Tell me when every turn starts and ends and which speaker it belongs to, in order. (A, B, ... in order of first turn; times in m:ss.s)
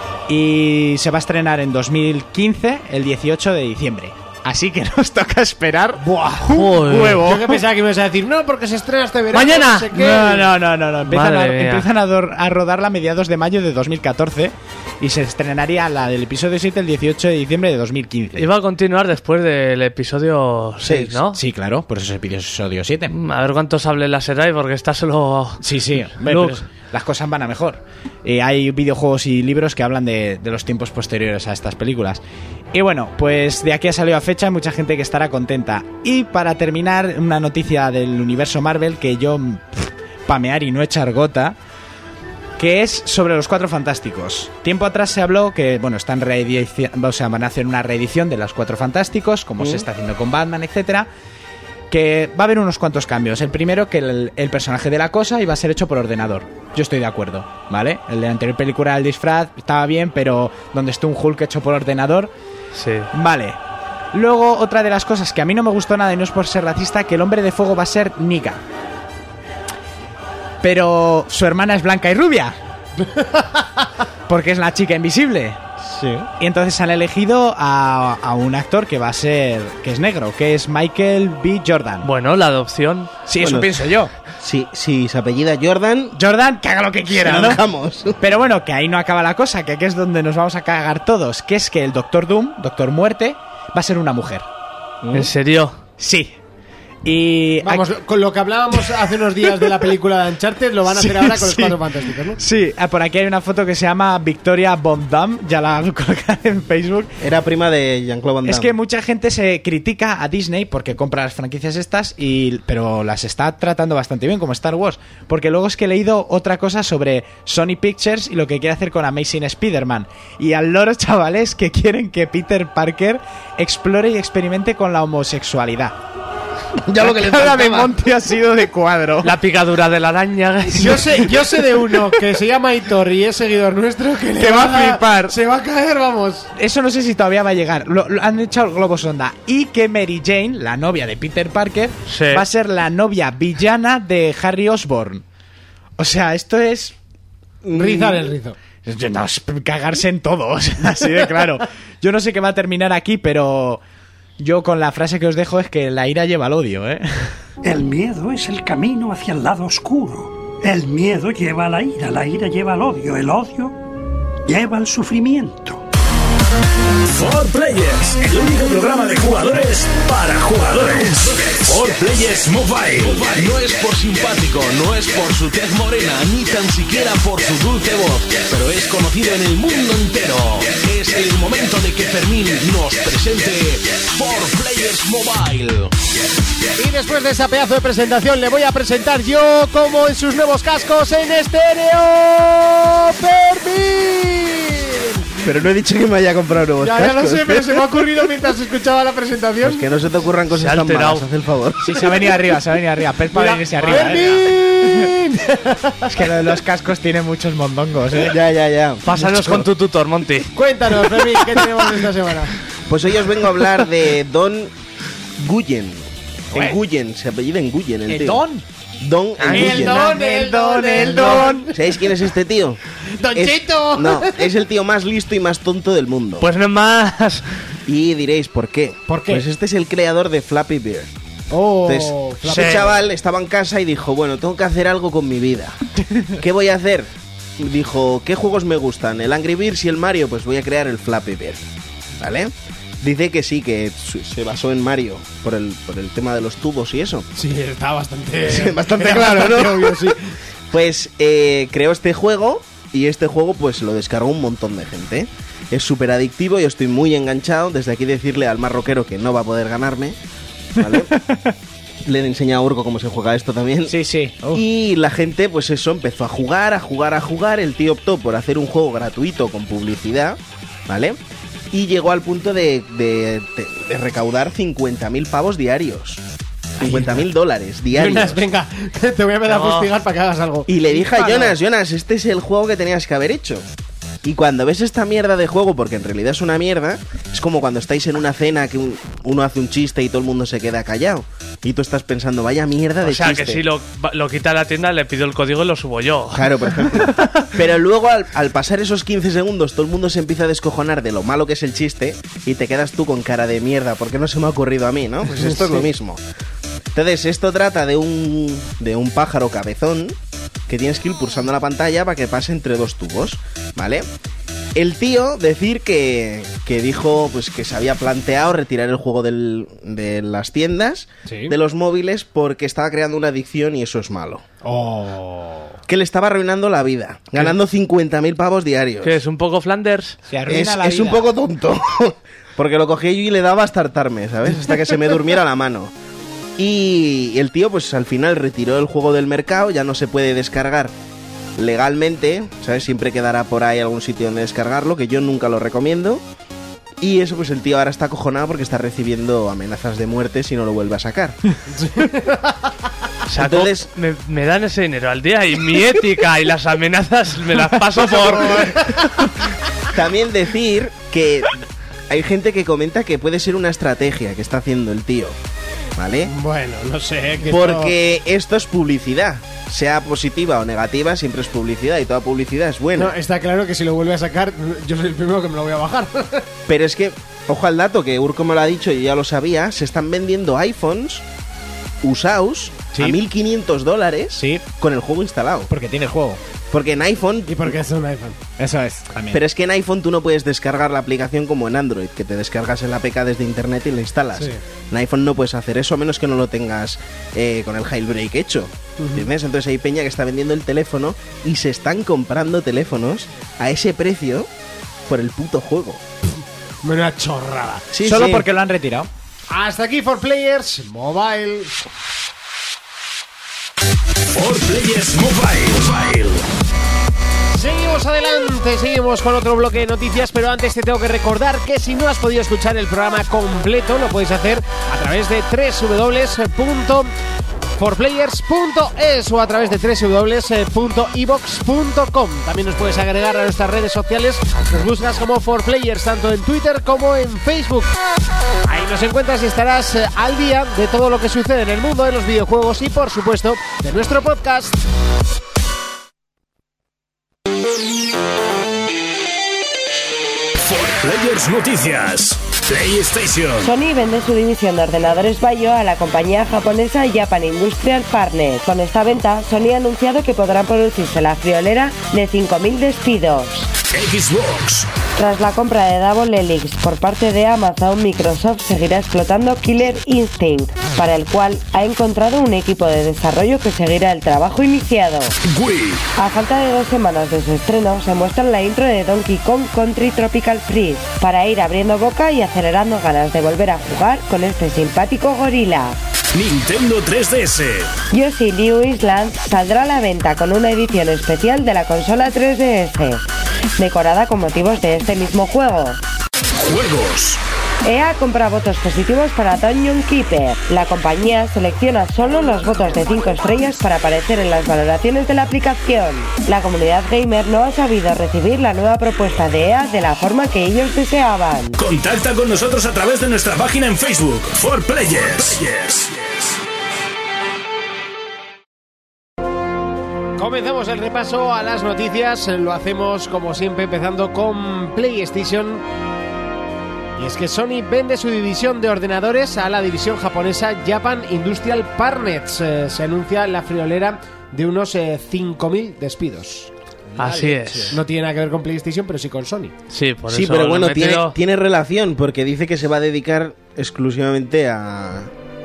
0:00.3-0:07.6 A
0:06.0-0:10.5 B
0:06.5-0:07.2 C
0:09.3-0:09.9 C
0:09.9-0:18.5 A
0:11.0-0:11.9 C
0:18.4-0:21.4 C
0:20.8-0:21.2 D
0:21.3-0:23.1 A
0:23.1-0:25.6 C
0:25.6-0:32.2 A
0:26.2-0:26.6 C
0:32.7-0:41.6 A
0:42.6-0:51.1 A
0:49.6-0:49.8 D
0:51.9-1:02.3 A
1:02.7-1:03.1 C
1:03.1-1:03.6 A
1:04.1-1:08.6 A
1:10.6-1:12.6 A
1:13.2-1:13.4 B
1:14.3-1:15.6 A
1:15.8-1:16.3 D
1:16.4-1:22.1 A
1:22.0-1:23.1 C
1:23.2-1:24.1 A
1:23.4-1:23.8 D
1:24.4-1:26.2 D
1:26.1-1:27.6 A
1:27.2-1:28.2 D
1:28.2-1:34.5 A
1:35.0-1:35.3 D
1:35.1-1:35.8 C
1:36.0-1:36.3 A
1:37.0-1:37.9 A
1:37.6-1:42.4 B
1:40.9-1:41.8 A
1:42.4-1:47.1 A
1:47.2-1:48.7 D
1:48.4-2:06.0 A
2:06.9-2:07.9 D
2:07.0-2:09.3 A
2:09.2-2:11.4 C
2:10.8-2:16.5 B
2:14.4-2:15.4 A
2:16.6-2:25.2 A
2:22.1-2:22.4 C
2:26.0-2:27.0 A
2:27.6-2:28.3 D
2:27.7-2:28.6 B
2:28.8-2:33.8 A
2:34.4-2:37.4 A
2:37.6-2:43.8 E
2:44.4-2:45.8 E
2:47.0-2:53.5 F
2:51.0-2:52.3 G
2:52.9-3:05.9 G
3:06.8-3:15.3 B
3:15.4-3:17.9 D
3:16.8-3:19.9 B
3:19.6-3:21.9 D
3:20.5-3:21.2 C
3:21.8-3:25.1 A
3:23.3-3:26.2 B
3:23.8-3:24.4 C
3:26.1-3:28.4 A
3:28.2-3:29.7 D
3:29.0-3:30.5 C
3:30.5-3:32.5 B
3:32.9-3:34.7 D
3:35.4-3:38.4 D
3:36.5-3:36.8 A
3:38.1-3:38.6 A
3:39.0-3:40.1 D
3:39.4-3:39.7 C
3:39.4-3:41.7 A
3:39.5-3:41.7 B
3:41.2-3:42.8 D
3:43.1-3:44.5 B
3:43.3-3:46.5 D
3:46.4-3:47.4 C
3:47.8-3:51.1 D
3:49.1-3:49.5 B
3:51.5-3:52.9 B
3:51.8-4:01.6 D
3:52.5-3:52.8 C
4:02.2-4:07.3 D
4:07.4-4:10.3 B
4:08.4-4:10.1 D
4:10.7-4:20.2 D
4:20.7-4:21.1 D
4:20.8-4:21.6 A
4:22.0-4:24.0 D
4:23.9-4:24.6 A
4:24.5-4:31.2 D
4:31.7-4:36.2 D
4:36.8-4:38.4 D
4:37.9-4:41.4 B
4:39.4-4:39.9 C
4:40.7-4:43.6 D
4:41.0-4:41.5 A
4:44.2-4:53.6 D
4:53.0-4:57.0 C
4:56.3-5:06.2 D
5:05.4-5:05.8 B
5:06.9-5:10.2 D
5:10.7-5:14.0 D
5:14.7-5:24.4 D
5:21.2-5:21.5 B
5:24.6-5:25.8 B
5:25.9-5:29.2 D
5:29.0-5:30.2 C
5:30.3-5:31.3 A
5:30.5-5:35.9 D
5:36.6-5:40.9 D
5:41.6-5:46.2 D
5:47.0-5:51.4 D
5:51.7-5:52.7 B
5:53.3-5:59.1 C
5:53.4-5:53.9 D
5:58.1-5:59.1 B
5:59.9-6:05.4 D
6:06.0-6:06.3 D
6:06.2-6:07.9 B
6:07.5-6:13.1 D
6:13.0-6:16.5 B
6:16.7-6:21.2 D
6:22.0-6:25.7 D
6:24.4-6:24.6 A
6:25.7-6:26.4 A
6:26.7-6:27.7 D
6:27.5-6:28.4 B
6:28.6-6:29.4 A
6:29.3-6:44.5 D
6:39.0-6:39.3 B
6:45.1-6:46.0 D
6:46.8-6:47.8 B
6:47.9-6:48.4 D
6:48.0-6:49.1 A
6:49.5-6:51.8 B
6:54.3-6:56.4 F
6:57.5-7:07.1 B
7:07.7-7:17.9 B
7:18.6-7:24.8 B
7:30.6-7:33.7 F
7:33.6-7:43.7 H
7:43.9-7:44.9 F
7:45.2-7:55.4 H
7:55.4-7:56.0 F
7:56.2-8:06.0 H
8:06.3-8:07.9 F
8:08.1-8:13.2 H
8:13.8-8:16.0 H
8:16.6-8:17.4 F
8:17.8-8:31.8 H
8:31.8-8:36.5 F
8:40.4-8:45.8 B
8:47.2-8:56.7 B
8:57.2-8:58.0 A
8:57.2-8:58.0 C
8:57.9-8:59.7 B
8:59.9-9:01.4 C
9:00.3-9:05.3 D